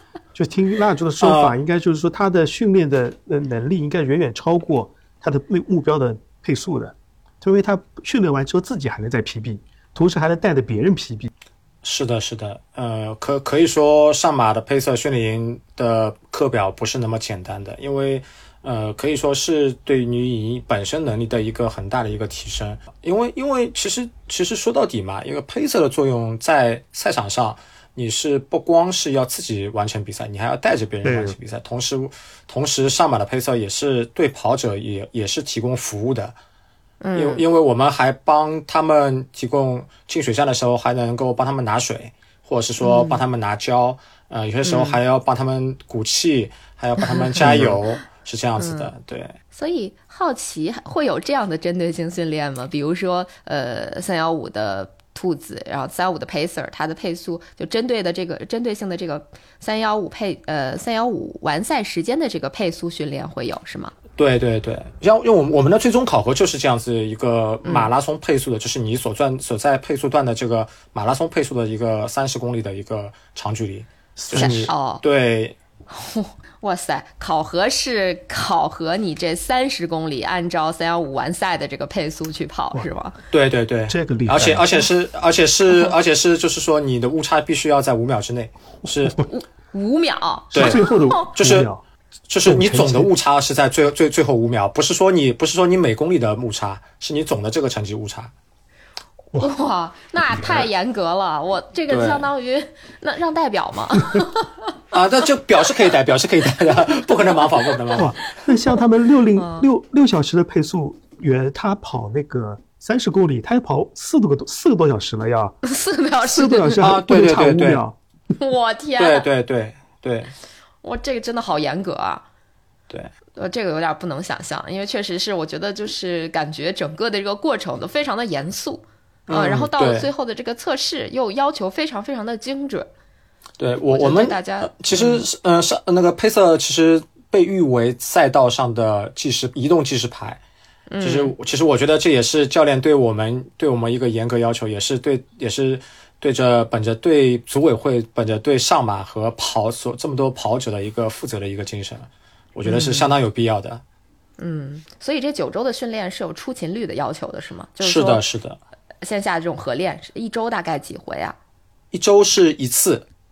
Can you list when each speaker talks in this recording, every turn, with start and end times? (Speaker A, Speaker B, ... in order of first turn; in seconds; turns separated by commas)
Speaker A: 0.3-11.3, Speaker B: 1.2-1.6, Speaker B: 11.8-36.4, Speaker A: 31.0-31.4, Speaker C: 37.0-37.5, Speaker B: 37.1-49.4, Speaker C: 42.8-43.2, Speaker C: 44.6-45.0, Speaker C: 47.0-47.5, Speaker A: 47.4-47.8, Speaker C: 48.6-48.9, Speaker C: 49.5-63.9, Speaker B: 64.2-75.6, Speaker C: 67.7-67.9, Speaker A: 74.2-74.7, Speaker C: 74.3-75.0, Speaker C: 75.9-83.2, Speaker B: 83.3-89.2, Speaker A: 83.9-84.7, Speaker C: 89.2-91.4, Speaker A: 90.5-91.8, Speaker B: 90.5-91.7, Speaker B: 92.3-98.3, Speaker A: 92.5-93.1, Speaker C: 99.3-104.5, Speaker B: 100.4-100.7, Speaker B: 101.9-102.3, Speaker B: 104.9-108.2, Speaker C: 107.2-108.3, Speaker A: 108.0-115.6, Speaker C: 109.3-109.7, Speaker C: 115.6-116.9, Speaker A: 116.2-118.0, Speaker B: 116.8-117.8, Speaker C: 118.4-119.3, Speaker B: 119.0-120.3, Speaker C: 120.8-122.2, Speaker C: 123.3-132.9, Speaker B: 129.3-130.1, Speaker B: 133.6-140.4, Speaker C: 133.9-135.2, Speaker C: 140.9-141.3, Speaker B: 141.0-153.8, Speaker C: 152.7-153.1, Speaker C: 154.4-158.2, Speaker B: 157.8-158.6, Speaker C: 159.0-161.4, Speaker B: 161.9-163.1